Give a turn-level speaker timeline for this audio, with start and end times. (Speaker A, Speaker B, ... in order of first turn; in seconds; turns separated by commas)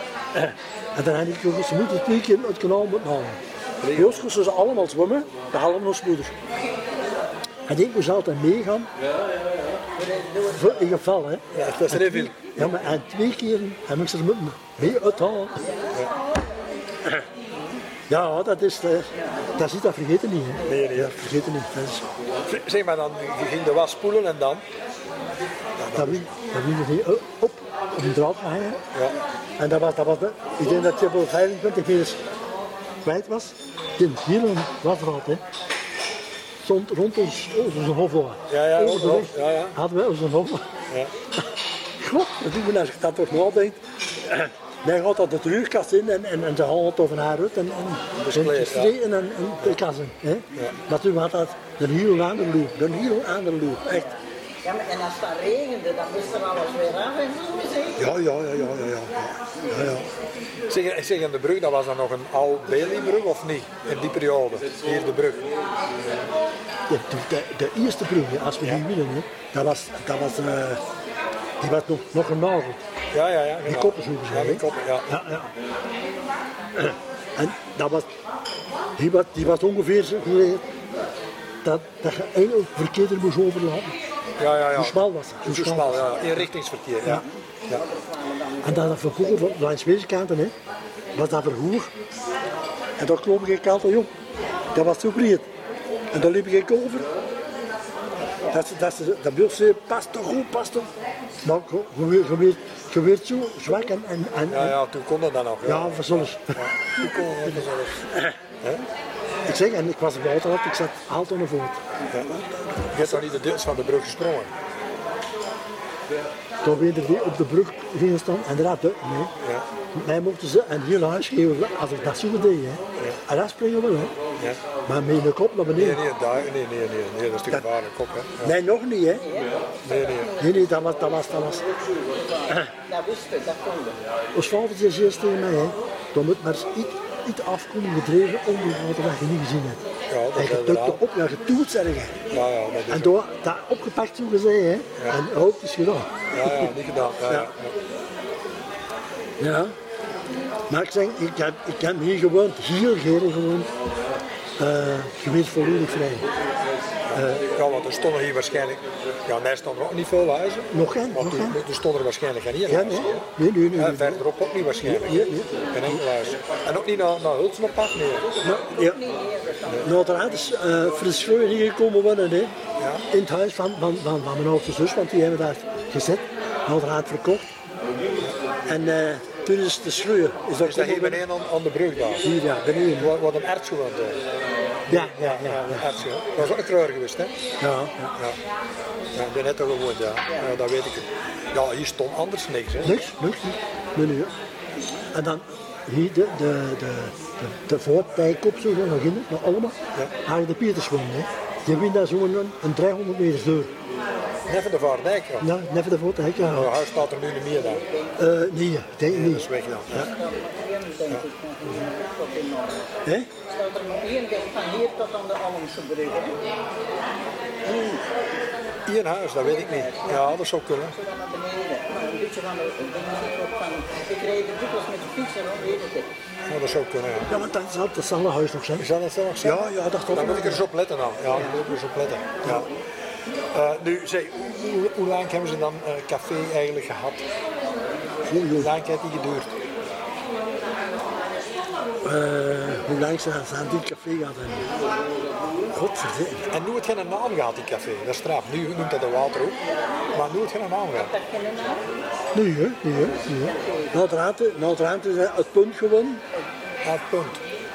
Speaker A: 0.3-3.4, Speaker B: 3.8-4.3, Speaker A: 3.9-6.3, Speaker A: 7.7-8.9, Speaker C: 9.9-11.0, Speaker A: 10.5-15.7, Speaker B: 11.5-12.7, Speaker C: 15.6-16.7, Speaker C: 17.5-17.8, Speaker A: 18.1-22.1, Speaker C: 19.1-19.5, Speaker B: 20.6-21.1, Speaker B: 22.5-24.6, Speaker B: 25.8-26.3, Speaker A: 25.9-28.8, Speaker A: 29.6-32.2, Speaker A: 33.0-35.4, Speaker A: 36.6-40.7, Speaker B: 38.5-39.8, Speaker A: 42.0-54.1, Speaker B: 48.2-49.0, Speaker C: 53.9-58.1, Speaker A: 58.0-60.1, Speaker C: 59.6-59.9, Speaker B: 60.7-65.4, Speaker A: 66.9-70.8, Speaker A: 71.6-72.8, Speaker B: 73.1-75.2, Speaker A: 73.6-75.5, Speaker A: 76.8-78.1, Speaker A: 79.0-80.7, Speaker A: 81.6-83.9, Speaker B: 84.4-87.8, Speaker A: 84.7-86.5, Speaker C: 87.0-89.5, Speaker A: 88.6-90.5, Speaker A: 91.2-91.9, Speaker A: 93.0-94.1, Speaker A: 94.7-95.5, Speaker A: 96.1-97.1, Speaker C: 98.4-98.7, Speaker A: 98.5-100.9, Speaker A: 101.4-104.8, Speaker B: 104.5-108.1, Speaker A: 105.6-106.7, Speaker A: 107.4-108.4, Speaker A: 109.5-113.2, Speaker B: 112.9-114.5, Speaker A: 116.6-119.3, Speaker B: 119.4-119.7, Speaker A: 119.9-124.2, Speaker A: 124.9-126.0, Speaker B: 125.8-128.6, Speaker A: 128.4-129.3, Speaker C: 129.1-131.0, Speaker B: 129.8-130.3, Speaker A: 130.4-131.6, Speaker C: 132.0-134.0, Speaker A: 134.3-139.8, Speaker B: 140.1-141.0, Speaker A: 140.3-142.2, Speaker B: 142.3-143.2, Speaker A: 142.9-147.5, Speaker B: 146.3-147.8, Speaker A: 149.4-149.8, Speaker A: 150.7-153.7, Speaker A: 154.6-156.3, Speaker B: 157.1-168.3, Speaker A: 157.1-157.5, Speaker A: 160.7-161.6, Speaker A: 162.7-164.2, Speaker A: 164.8-166.0, Speaker A: 168.4-169.0, Speaker C: 168.4-170.6, Speaker A: 169.8-172.6, Speaker B: 172.8-173.1, Speaker A: 173.1-177.5, Speaker A: 178.7-181.2, Speaker B: 180.6-182.2, Speaker A: 182.2-183.2, Speaker B: 183.0-184.2, Speaker B: 184.9-187.3, Speaker A: 184.9-185.9, Speaker A: 187.6-188.2, Speaker B: 189.2-193.0, Speaker C: 190.3-190.5, Speaker A: 192.8-194.3, Speaker A: 195.1-203.7, Speaker B: 204.5-205.5, Speaker A: 205.4-206.7, Speaker B: 206.5-207.8, Speaker C: 207.5-208.3, Speaker A: 208.2-210.1, Speaker B: 209.1-210.1, Speaker C: 209.9-216.4, Speaker A: 213.1-213.3, Speaker C: 217.7-218.1, Speaker B: 218.9-221.0, Speaker C: 219.4-226.1, Speaker B: 226.5-227.3, Speaker A: 227.3-230.7, Speaker B: 228.8-232.7, Speaker B: 233.5-237.2, Speaker A: 238.2-238.7, Speaker B: 238.6-239.5, Speaker A: 242.0-244.7, Speaker A: 245.7-246.5, Speaker B: 246.5-249.6, Speaker C: 249.6-250.3, Speaker B: 250.1-251.1, Speaker C: 250.9-251.9, Speaker A: 252.3-256.2, Speaker C: 253.2-254.0, Speaker B: 256.8-257.4